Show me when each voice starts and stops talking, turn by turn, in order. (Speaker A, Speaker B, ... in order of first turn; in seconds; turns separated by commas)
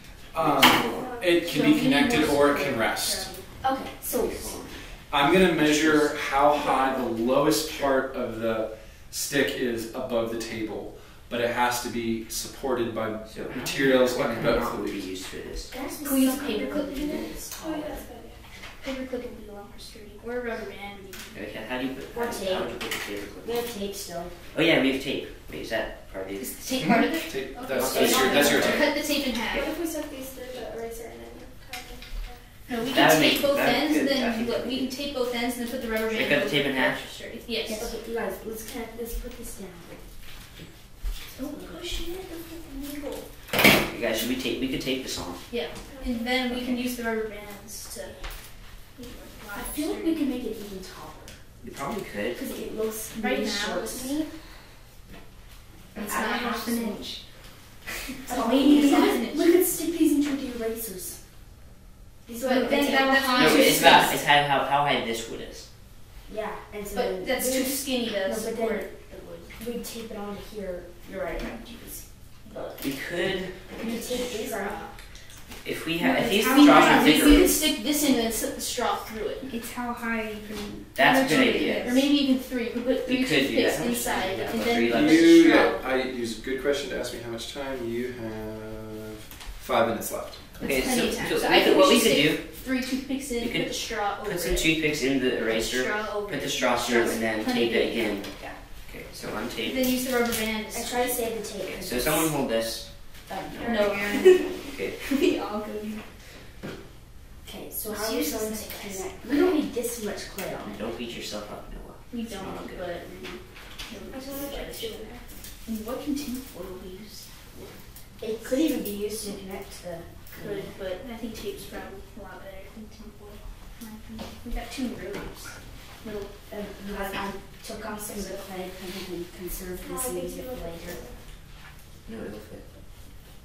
Speaker A: 0.3-3.3, Speaker B: 0.4-1.1, Speaker C: 0.8-1.5, Speaker D: 1.3-3.5, Speaker E: 3.6-4.6, Speaker B: 4.2-6.1, Speaker A: 5.1-15.1, Speaker B: 13.3-15.8, Speaker E: 15.7-18.1, Speaker D: 16.0-17.4, Speaker C: 17.6-18.4, Speaker D: 18.8-21.4, Speaker B: 21.3-23.7, Speaker E: 22.1-22.8, Speaker E: 23.4-24.3, Speaker B: 24.5-26.6, Speaker D: 26.4-29.7, Speaker A: 26.8-28.9, Speaker B: 27.7-28.9, Speaker C: 28.0-28.4, Speaker C: 29.4-32.4, Speaker D: 32.6-37.9, Speaker B: 32.8-34.9, Speaker B: 36.1-37.0, Speaker E: 37.7-40.0, Speaker E: 41.3-41.9, Speaker D: 41.3-43.3, Speaker B: 43.6-45.5, Speaker D: 45.5-50.3, Speaker C: 45.9-46.3, Speaker B: 46.5-46.8, Speaker E: 49.5-51.4, Speaker B: 51.6-52.4, Speaker E: 52.3-54.3, Speaker D: 53.1-54.3, Speaker E: 55.9-57.1, Speaker D: 55.9-57.2, Speaker D: 58.2-59.5, Speaker E: 58.2-61.3, Speaker E: 62.2-64.1, Speaker D: 62.4-64.2, Speaker B: 63.0-65.7, Speaker E: 66.3-68.9, Speaker D: 66.9-69.5, Speaker E: 69.6-72.9, Speaker B: 72.8-74.0, Speaker E: 73.8-74.9, Speaker D: 73.8-74.9, Speaker B: 75.6-77.6, Speaker D: 76.0-79.5, Speaker E: 76.4-77.5, Speaker C: 79.5-80.7, Speaker E: 79.6-82.0, Speaker B: 80.9-82.0, Speaker D: 81.0-85.9, Speaker B: 83.0-85.5, Speaker A: 84.9-90.4, Speaker D: 90.5-98.5, Speaker B: 90.6-92.5, Speaker B: 93.4-98.3, Speaker B: 98.9-100.0, Speaker D: 99.6-101.2, Speaker E: 100.7-102.4, Speaker B: 101.6-102.9, Speaker E: 103.3-104.4, Speaker C: 103.6-104.5, Speaker D: 103.6-106.1, Speaker B: 104.6-105.0, Speaker E: 107.4-110.8, Speaker D: 107.9-109.6, Speaker B: 110.6-113.0, Speaker D: 112.1-117.8, Speaker E: 113.0-113.4, Speaker E: 114.1-114.9, Speaker C: 114.1-115.2, Speaker E: 118.2-120.7, Speaker D: 120.4-128.4, Speaker E: 126.5-131.0, Speaker C: 129.8-131.1, Speaker B: 132.0-132.7